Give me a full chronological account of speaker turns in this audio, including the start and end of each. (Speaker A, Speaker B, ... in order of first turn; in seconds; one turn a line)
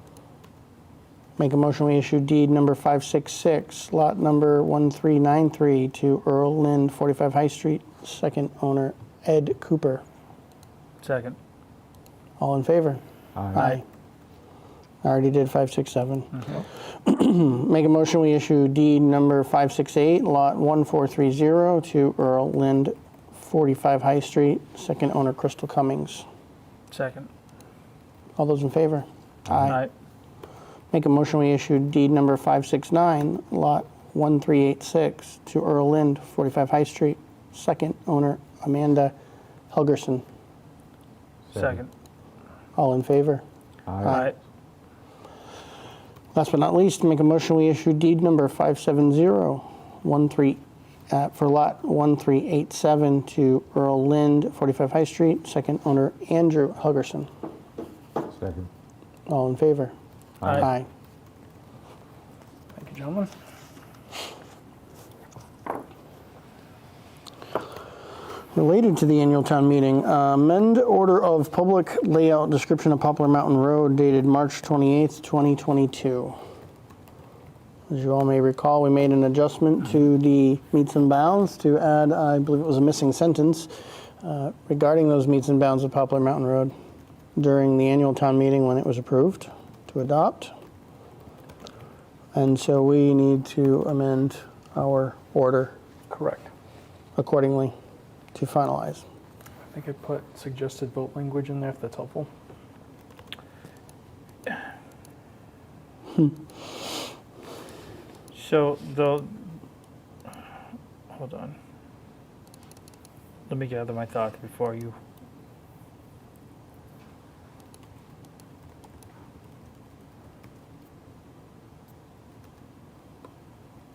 Speaker A: 1.4-10.0
Speaker B: 11.0-11.4
Speaker A: 12.4-13.0
Speaker C: 13.3-13.8
Speaker A: 13.5-13.8
Speaker A: 15.0-26.2
Speaker B: 26.9-27.3
Speaker A: 28.4-29.8
Speaker B: 29.6-29.9
Speaker A: 30.9-39.1
Speaker A: 39.7-40.2
Speaker C: 41.5-41.8
Speaker B: 41.5-41.9
Speaker A: 42.8-43.4
Speaker C: 43.9-44.2
Speaker A: 44.0-44.3
Speaker B: 44.1-44.3
Speaker A: 46.3-57.3
Speaker C: 58.3-58.7
Speaker A: 59.3-59.9
Speaker C: 60.4-60.7
Speaker B: 60.4-60.7
Speaker A: 60.5-60.9
Speaker D: 62.7-63.3
Speaker A: 68.5-76.4
Speaker A: 77.9-83.7
Speaker A: 84.2-86.7
Speaker A: 87.3-90.5
Speaker A: 92.3-95.7
Speaker D: 96.1-96.5
Speaker A: 97.2-97.7
Speaker A: 98.3-99.0
Speaker D: 99.7-102.3
Speaker B: 108.3-109.4
Speaker B: 111.1-111.5
Speaker B: 113.5-115.0